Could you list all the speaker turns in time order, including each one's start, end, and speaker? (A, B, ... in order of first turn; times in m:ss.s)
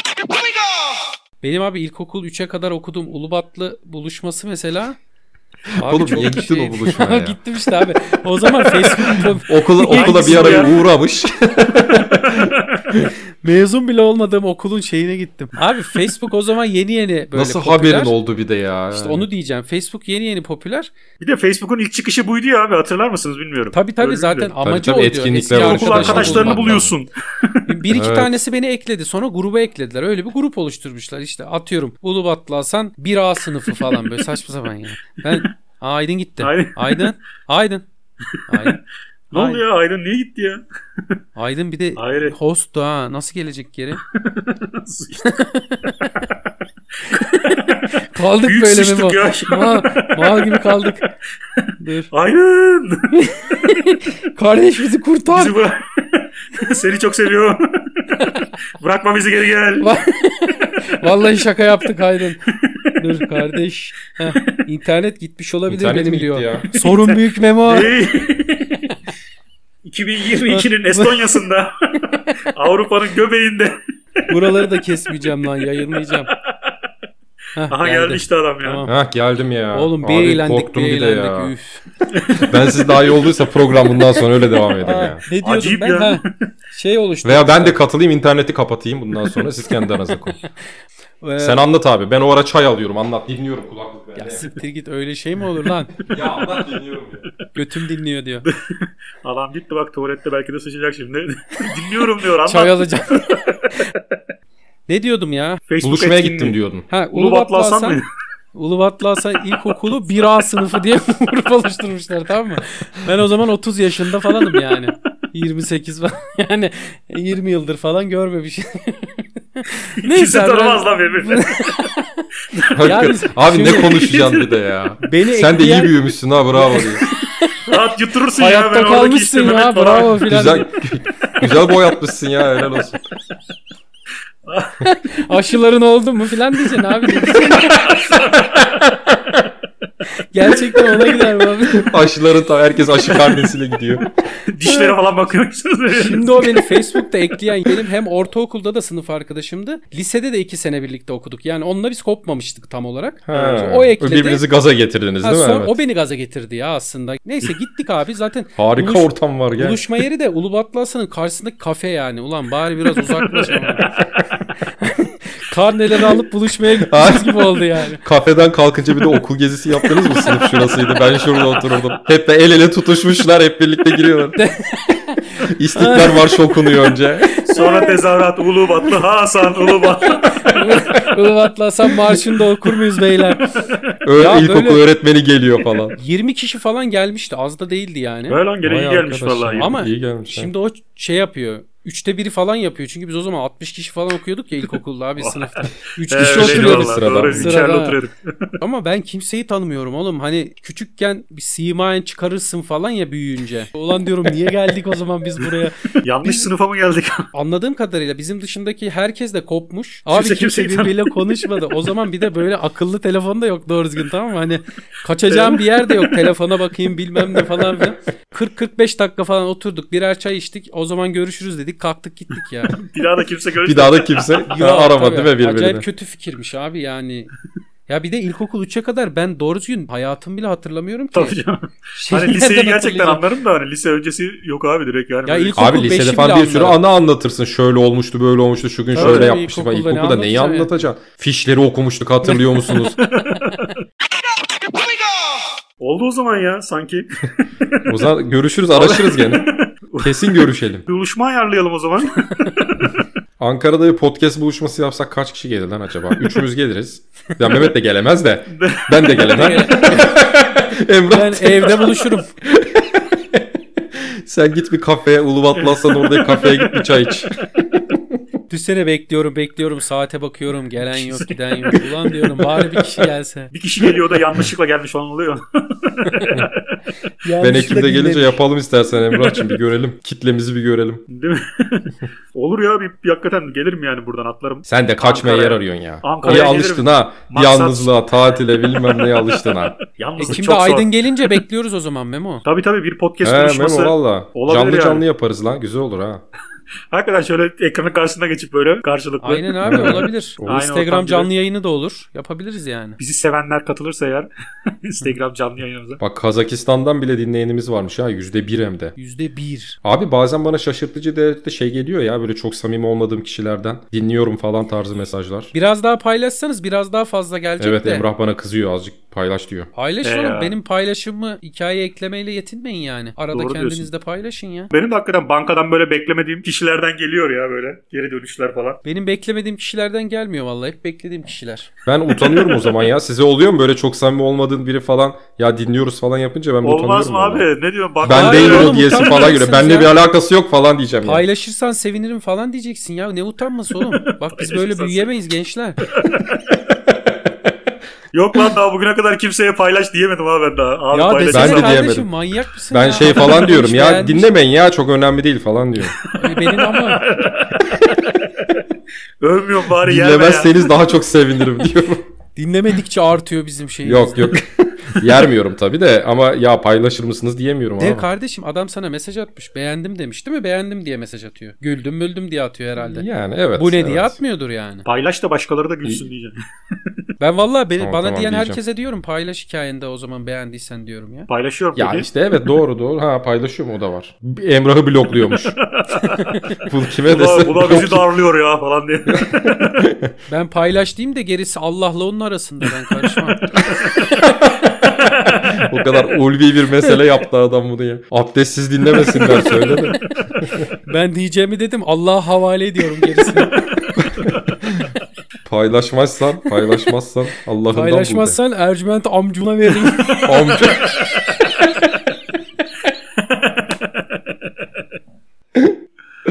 0:01.4-0:05.0 A
0:05.7-0:07.4 B
0:05.8-0:10.7 A
0:08.8-0:13.1 B
0:09.9-0:10.8 C
0:12.2-0:12.8 C
0:13.4-0:18.1 A
0:17.3-0:19.2 B
0:18.9-0:20.9 A
0:21.2-0:24.5 C
0:23.7-0:26.8 A
0:24.6-0:26.9 B
0:25.5-0:27.6 C
0:27.7-0:37.8 A
0:27.9-0:28.3 B
0:36.4-0:37.0 C
0:38.5-0:38.8 A
0:39.3-0:40.6 C
0:39.3-0:39.6 A
0:41.4-0:44.0 A
0:42.0-0:42.3 C
0:44.0-0:45.4 C
0:45.2-0:46.3 A
0:47.0-0:51.1 A
0:47.1-0:50.6 C
0:51.6-0:53.2 C
0:51.8-0:52.1 A
0:53.1-0:55.6 A
0:55.3-0:58.2 C
0:58.8-0:59.9 C
0:59.8-1:02.4 A
1:02.5-1:02.9 C
1:03.0-1:07.9 A
1:05.7-1:06.6 B
1:06.7-1:08.8 C
1:09.8-1:13.8 C
1:10.5-1:11.4 A
1:12.0-1:12.4 A
1:14.3-1:16.3 A
1:16.3-1:16.7 C
1:17.6-1:18.9 A
1:17.7-1:18.8 C
1:18.8-1:21.5 B
1:19.7-1:21.8 A
1:22.1-1:23.0 C
1:22.5-1:25.2 B
1:24.8-1:27.8 A
1:25.4-1:26.3 C
1:27.2-1:30.4 B
1:31.2-1:31.6 A
1:31.4-1:34.5 B
1:34.2-1:35.9 A
1:36.1-1:37.2 B
1:37.5-1:38.5 A
1:38.4-1:43.4 C
1:42.4-1:43.9 A
1:44.9-1:45.6 A
1:45.7-1:46.6 C
1:45.8-1:46.9 B
1:46.9-1:48.0 A
1:47.1-1:48.0 C
1:48.5-2:02.2 A
2:00.0-2:01.9 C
2:02.7-2:07.0 B
2:02.8-2:04.0 A
2:03.9-2:04.5 C
2:05.1-2:05.9 A
2:06.5-2:07.7 A
2:07.6-2:10.2 C
2:08.4-2:10.7 A
2:10.3-2:13.0 B
2:14.4-2:14.9 C
2:14.8-2:17.9 A
2:17.4-2:18.9 C
2:20.3-2:21.9 A
2:20.8-2:21.1 C
2:21.7-2:24.1 B
2:24.5-2:26.8 C
2:24.6-2:24.9 A
2:25.9-2:34.4 A
2:33.3-2:35.8 B
2:35.2-2:43.9 A
2:38.6-2:39.8 B
2:43.0-2:44.2 C
2:44.8-2:48.0 A
2:46.8-2:54.4 B
2:50.0-2:50.5 A
2:54.4-2:58.0 A
2:55.5-2:57.4 B
2:57.5-3:00.7 C
3:00.0-3:03.6 A
3:03.5-3:03.8 C
3:04.0-3:06.0 B
3:04.2-3:04.8 A
3:06.0-3:08.4 A
3:08.3-3:09.7 C
3:08.6-3:10.5 B
3:09.6-3:18.0 A
3:15.2-3:18.5 C
3:16.2-3:17.5 B
3:18.6-3:26.5 A
3:26.0-3:27.3 C
3:27.3-3:42.8 A
3:30.1-3:31.5 C
3:35.3-3:36.3 C
3:37.3-3:37.6 C
3:42.7-3:44.5 C
3:43.6-3:45.8 B
3:44.5-3:47.3 A
3:47.9-3:51.4 A
3:51.1-3:55.7 C
3:52.0-3:53.2 A
3:55.2-3:56.8 A
3:55.6-4:03.0 B
3:58.9-4:00.7 A
3:59.0-3:59.3 C
4:02.3-4:02.7 A
4:02.8-4:03.7 C
4:05.8-4:08.0 C
4:07.8-4:09.4 B
4:08.7-4:10.2 C
4:10.0-4:10.8 B
4:10.9-4:13.0 C
4:13.4-4:28.2 B
4:18.6-4:19.0 C
4:19.1-4:20.2 A
4:21.1-4:22.3 A
4:25.6-4:27.0 C
4:28.5-4:33.5 A
4:30.9-4:31.2 C
4:32.2-4:33.0 B
4:33.5-4:36.7 C
4:36.1-4:36.3 A
4:37.2-4:38.4 A
4:37.4-4:41.0 B
4:39.1-4:39.4 C
4:41.1-4:48.0 C
4:44.6-4:49.8 B
4:46.2-4:46.5 A
4:48.8-4:51.3 C
4:50.2-4:52.4 A
4:52.4-4:55.0 C
4:53.2-4:56.2 B
4:56.9-5:01.3 C
4:59.2-5:03.0 A
4:59.6-5:00.6 B
5:03.0-5:04.3 C
5:04.8-5:06.0 C
5:06.0-5:08.9 B
5:09.0-5:09.8 A
5:09.8-5:15.5 B
5:15.5-5:18.0 A
5:17.6-5:19.7 B
5:19.7-5:24.7 A
5:20.0-5:20.5 C
5:23.3-5:23.9 C
5:24.7-5:28.8 C
5:28.8-5:31.7 A
5:31.8-5:37.4 B
5:32.2-5:32.7 C
5:36.6-5:39.3 C
5:38.0-5:41.2 B
5:38.0-5:40.0 A
5:41.0-5:45.8 A
5:44.3-5:45.1 C
5:45.9-5:46.4 C
5:48.1-5:51.8 C
5:50.9-5:54.3 A
5:51.3-5:52.1 B
5:52.7-5:56.0 B
5:56.0-5:58.6 C
5:56.1-5:57.1 A
5:59.2-6:00.7 C
5:59.8-6:02.0 B
6:02.4-6:04.4 A
6:03.8-6:08.1 B
6:07.8-6:14.8 A
6:12.8-6:14.2 B
6:14.8-6:16.4 C
6:17.2-6:21.3 A
6:17.8-6:18.6 B
6:21.3-6:22.1 C
6:21.8-6:25.6 B
6:25.3-6:29.8 C
6:26.0-6:26.6 A
6:26.6-6:28.0 B
6:29.1-6:30.1 B
6:30.3-6:33.4 A
6:35.0-6:35.6 C
6:35.3-6:40.7 B
6:39.2-6:39.7 A
6:40.8-6:43.6 A
6:44.0-6:44.9 B
6:45.4-6:48.4 B
6:47.7-6:50.6 A
6:50.0-6:51.3 C
6:50.2-6:51.0 B
6:53.2-6:54.0 C